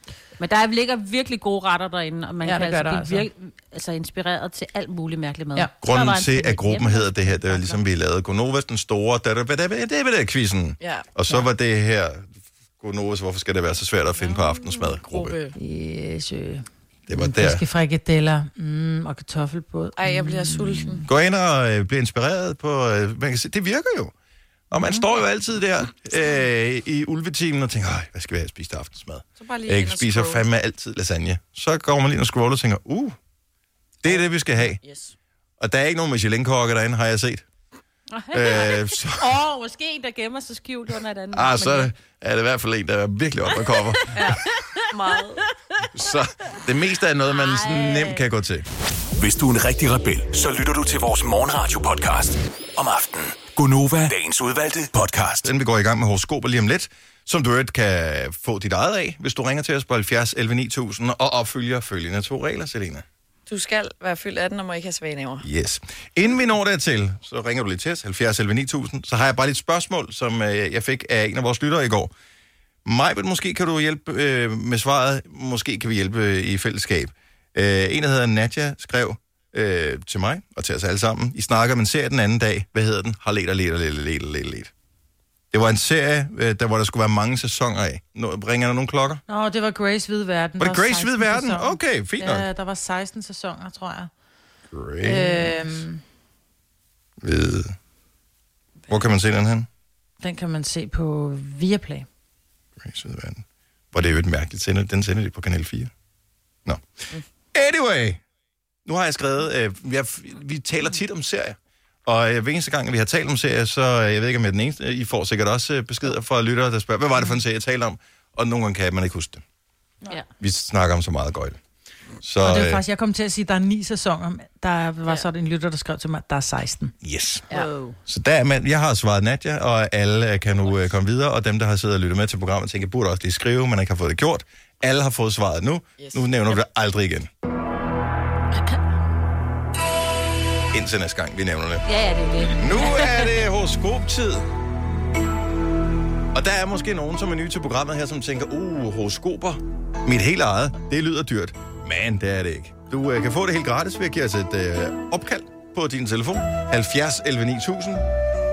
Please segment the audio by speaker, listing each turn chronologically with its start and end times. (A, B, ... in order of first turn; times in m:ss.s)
0:00.4-0:07.8 A
0:02.4-0:03.2 B
0:05.8-0:15.4 C
0:10.8-0:11.1 D
0:14.2-0:15.6 D
0:15.6-0:21.0 B
0:17.1-0:17.6 C
0:20.0-0:21.0 D
0:21.1-0:24.1 C
0:24.7-0:33.2 C
0:29.4-0:30.5 D
0:34.0-0:34.8 C
0:34.0-0:35.2 D
0:35.6-0:37.4 C
0:38.1-0:41.9 A
0:38.3-0:39.4 C
0:41.3-0:44.2 C
0:43.6-0:45.2 A
0:44.1-0:44.4 D
0:44.9-0:45.4 D
0:45.9-0:48.6 C
0:47.3-0:48.2 A
0:49.2-0:55.5 E
0:55.4-1:03.0 C
1:03.5-1:05.4 D
1:05.4-1:12.1 C
1:12.8-1:24.7 C
1:25.5-1:29.2 C
1:29.3-1:34.1 B
1:30.6-1:32.5 C
1:34.7-1:35.7 C
1:35.0-1:36.0 B
1:37.2-1:37.7 C
1:38.9-1:39.7 C
1:40.2-1:42.1 B
1:42.8-1:45.9 C
1:47.5-1:48.2 C
1:48.8-1:59.4 C
2:00.4-2:01.6 C
2:02.2-2:02.8 C
2:02.4-2:06.9 B
2:07.0-2:07.5 C
2:07.5-2:08.0 A
2:08.1-2:17.3 C
2:16.0-2:16.6 D
2:20.7-2:21.8 C
2:21.8-2:23.4 A
2:22.4-2:24.4 C
2:26.3-2:38.0 C